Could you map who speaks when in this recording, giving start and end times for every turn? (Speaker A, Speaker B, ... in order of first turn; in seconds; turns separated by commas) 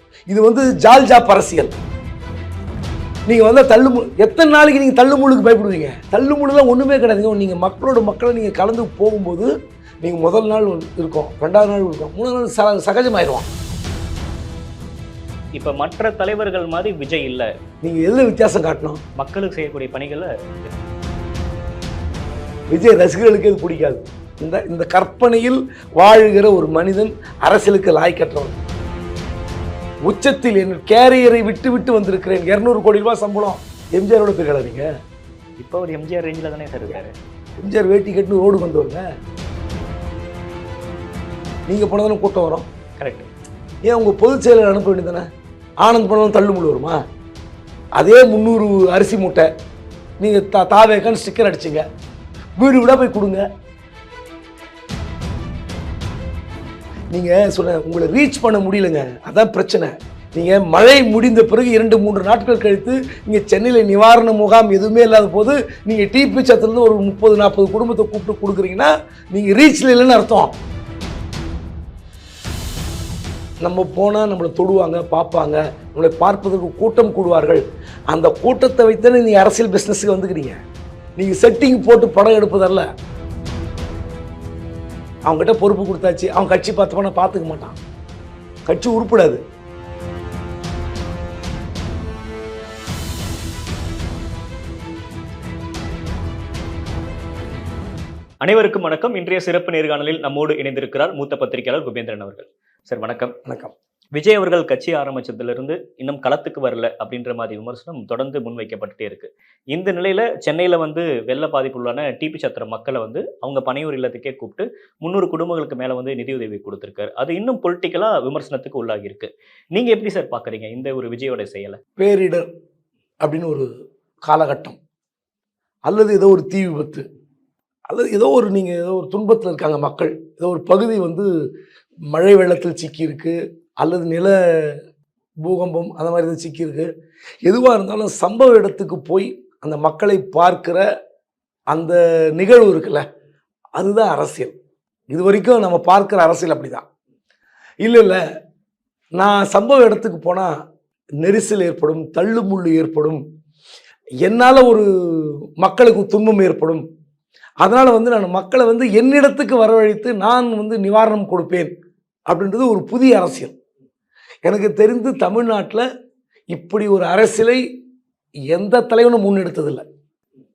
Speaker A: 0.3-1.7, Speaker A: 3.3-9.5, Speaker A: 10.0-13.4, Speaker B: 15.5-17.5, Speaker A: 17.8-19.0, Speaker B: 19.2-20.7, Speaker A: 22.7-28.6, Speaker A: 30.1-34.8, Speaker B: 35.6-37.1, Speaker A: 37.6-39.0, Speaker A: 41.7-42.7, Speaker B: 43.0-43.3, Speaker A: 43.8-45.3, Speaker A: 45.8-47.0, Speaker A: 48.0-49.5, Speaker A: 50.2-51.8, Speaker A: 52.6-53.4, Speaker A: 57.1-70.5, Speaker A: 73.6-80.6, Speaker A: 81.2-82.9, Speaker A: 85.3-87.8, Speaker A: 88.7-89.4, Speaker B: 98.4-103.3, Speaker A: 103.5-103.7, Speaker B: 104.2-121.8, Speaker A: 122.0-122.5, Speaker A: 123.2-123.7, Speaker A: 124.3-124.8, Speaker A: 125.9-127.0, Speaker A: 127.9-131.3, Speaker A: 132.1-134.8, Speaker A: 135.4-136.9, Speaker A: 137.4-140.8, Speaker A: 141.7-143.0, Speaker A: 143.8-144.5, Speaker A: 145.1-146.8, Speaker A: 147.8-148.2, Speaker A: 149.2-150.5, Speaker A: 151.2-153.2, Speaker A: 154.2-156.8, Speaker A: 157.6-161.7, Speaker A: 162.3-163.5, Speaker A: 164.5-165.8, Speaker A: 166.5-167.6, Speaker A: 168.5-169.8